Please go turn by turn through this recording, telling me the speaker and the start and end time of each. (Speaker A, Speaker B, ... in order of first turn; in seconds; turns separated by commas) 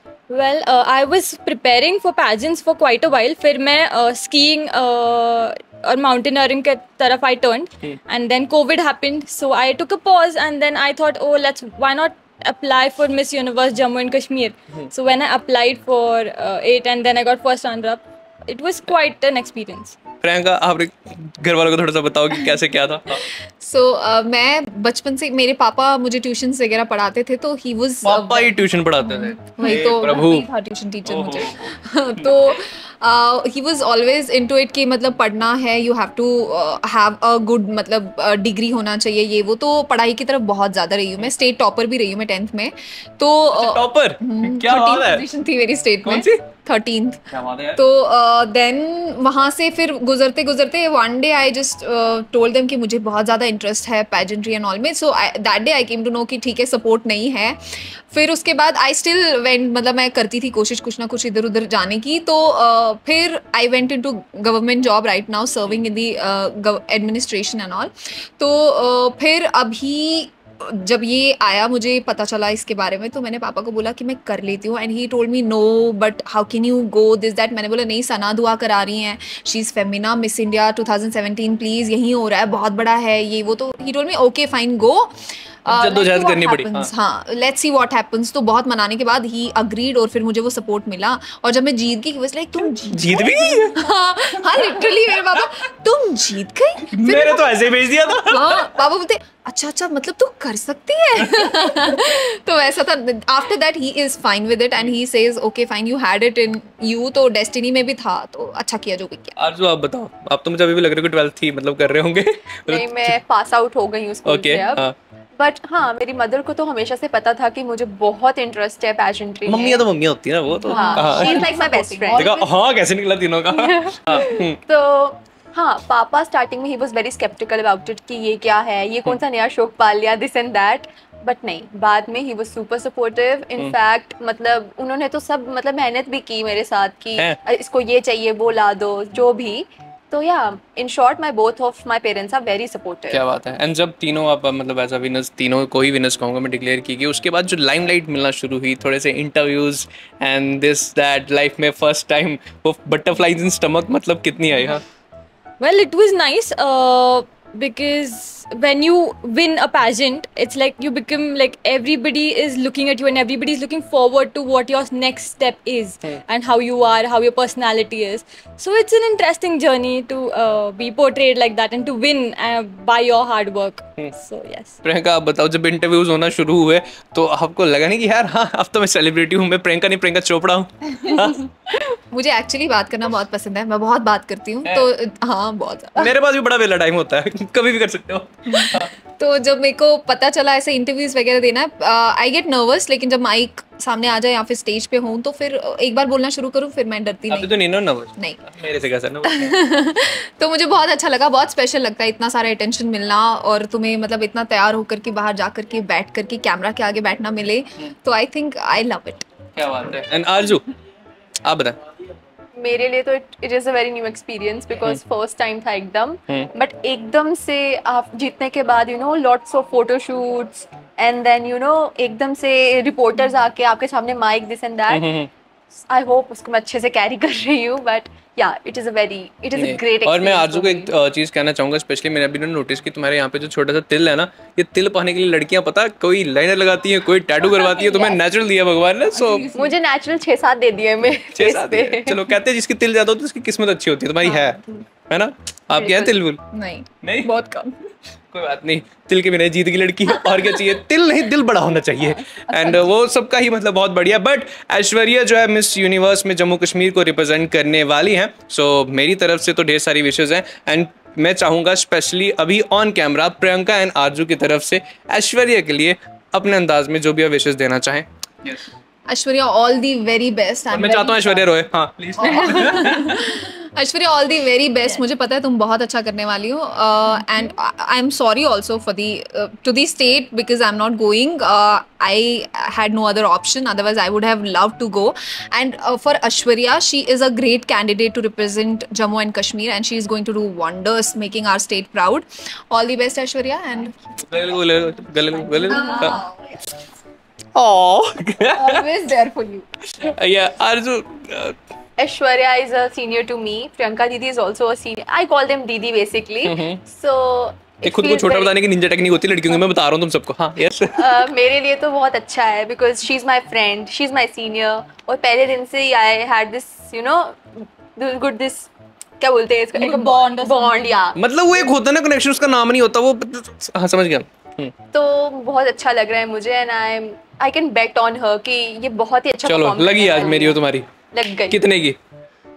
Speaker A: 0.3-20.0, Speaker B: 20.2-23.3, Speaker C: 23.3-47.2, Speaker B: 28.0-30.5, Speaker B: 31.1-32.6, Speaker B: 43.5-45.3, Speaker B: 46.0-46.4, Speaker B: 47.3-47.8, Speaker C: 47.8-97.6, Speaker B: 85.7-86.9, Speaker B: 92.9-93.9, Speaker B: 96.9-98.7, Speaker C: 98.2-109.4, Speaker B: 101.3-101.6, Speaker B: 109.4-113.2, Speaker D: 112.7-119.8, Speaker B: 114.2-115.0, Speaker B: 119.5-121.6, Speaker C: 120.7-122.4, Speaker D: 120.7-122.5, Speaker A: 120.8-121.6, Speaker B: 122.1-124.6, Speaker D: 123.5-143.2, Speaker B: 143.1-154.8, Speaker A: 155.6-174.8, Speaker B: 174.8-181.5, Speaker C: 182.1-186.2, Speaker B: 184.7-184.9, Speaker B: 186.0-188.9, Speaker C: 188.5-197.6, Speaker B: 197.3-199.6, Speaker C: 199.2-209.3, Speaker B: 209.6-210.7, Speaker B: 211.4-211.8, Speaker D: 212.6-225.1, Speaker B: 224.9-225.3, Speaker D: 225.8-230.9, Speaker B: 229.5-239.5, Speaker D: 237.7-238.2, Speaker C: 239.1-239.8, Speaker D: 239.5-242.2, Speaker B: 241.3-246.4, Speaker D: 245.7-246.2, Speaker C: 246.5-247.8, Speaker B: 247.0-247.3, Speaker B: 248.3-268.7, Speaker C: 269.1-271.5, Speaker B: 270.7-273.4, Speaker C: 272.2-294.0, Speaker B: 294.2-296.2, Speaker D: 295.5-296.3, Speaker C: 295.7-296.6, Speaker B: 297.6-298.9, Speaker C: 298.5-299.7, Speaker B: 299.9-301.6, Speaker D: 302.0-308.6, Speaker B: 306.4-306.8, Speaker B: 307.8-311.3, Speaker D: 310.9-321.2, Speaker A: 319.8-321.0, Speaker B: 321.2-324.7, Speaker D: 324.9-331.6, Speaker B: 329.4-330.9, Speaker B: 331.5-332.0